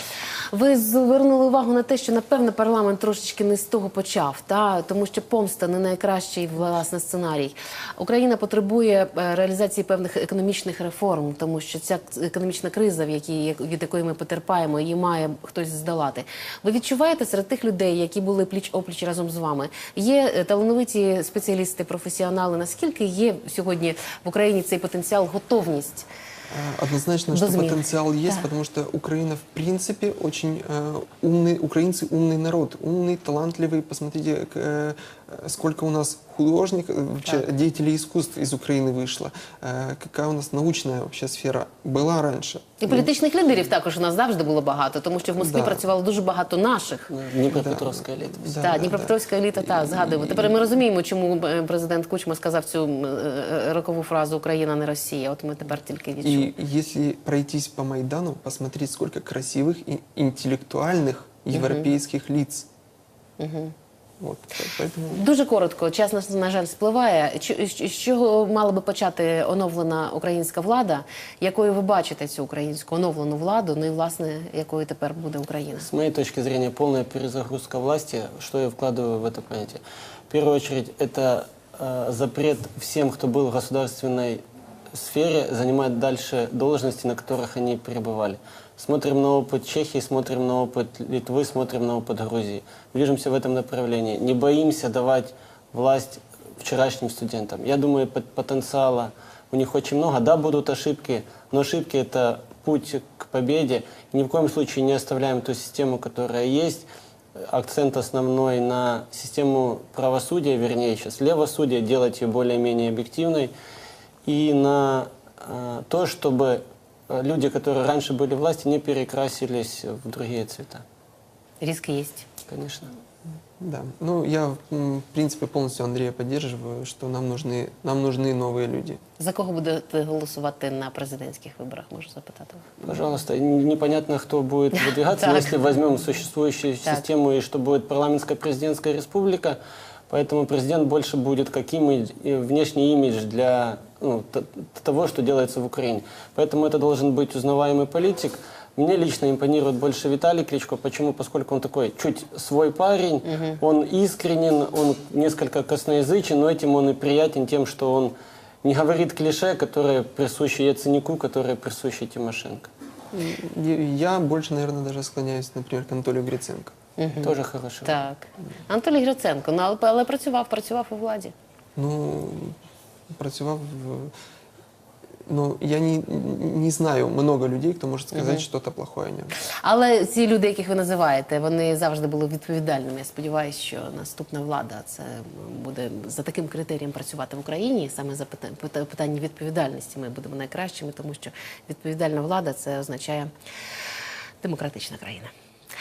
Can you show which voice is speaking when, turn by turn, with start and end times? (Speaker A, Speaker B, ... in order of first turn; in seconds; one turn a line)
Speaker A: 0.5-26.1
Speaker B: 26.5-43.1
Speaker A: 27.3-28.5
Speaker A: 42.8-47.1
Speaker B: 45.4-45.8
Speaker C: 47.1-48.6
Speaker B: 47.5-50.6
Speaker A: 48.6-56.5
Speaker B: 56.2-62.7
Speaker A: 61.5-61.9
Speaker A: 63.4-63.8
Speaker B: 64.2-65.2
Speaker A: 65.1-75.9
Speaker C: 75.9-113.5
Speaker C: 114.3-120.8
Speaker A: 121.6-122.3
Speaker C: 122.5-122.9
Speaker B: 123.6-129.0
Speaker A: 129.2-132.7
Speaker C: 132.8-139.6
Speaker A: 134.8-135.5
Speaker C: 140.1-162.7
Speaker A: 153.3-153.6
Speaker B: 163.1-166.8
Speaker A: 167.0-171.3
Speaker C: 167.2-167.9
Speaker B: 171.8-172.6
Speaker B: 173.1-174.1
Speaker B: 175.3-179.3
Speaker A: 178.1-178.4
Speaker A: 179.6-193.3
Speaker A: 194.4-195.3